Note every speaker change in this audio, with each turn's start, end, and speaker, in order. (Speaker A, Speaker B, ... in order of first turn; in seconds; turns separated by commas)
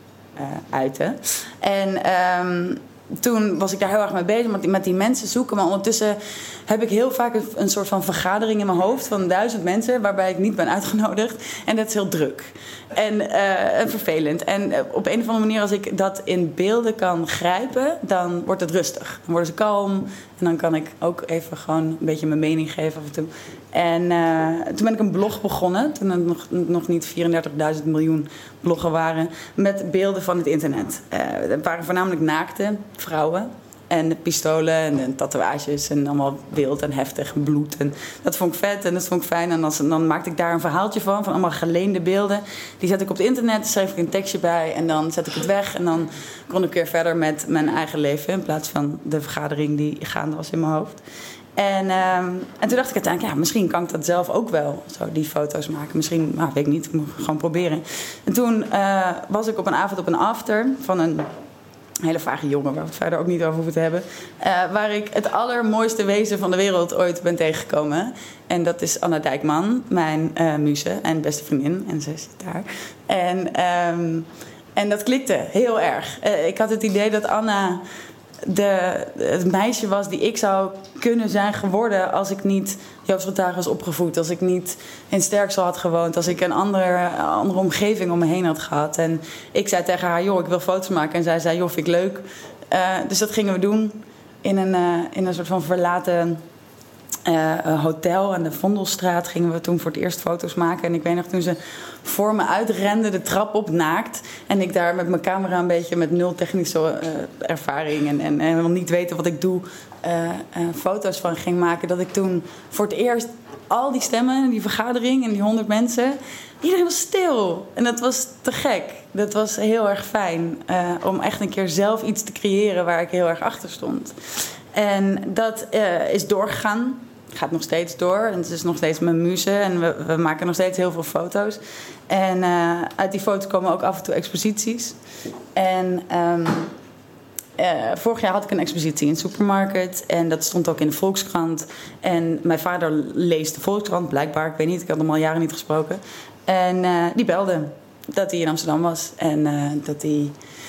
Speaker A: 0.4-51.0, Speaker A: 51.5-61.3, Speaker A: 62.0-77.8, Speaker A: 78.4-96.4, Speaker A: 97.2-124.2, Speaker A: 124.7-134.9, Speaker A: 135.5-136.7, Speaker A: 137.6-150.3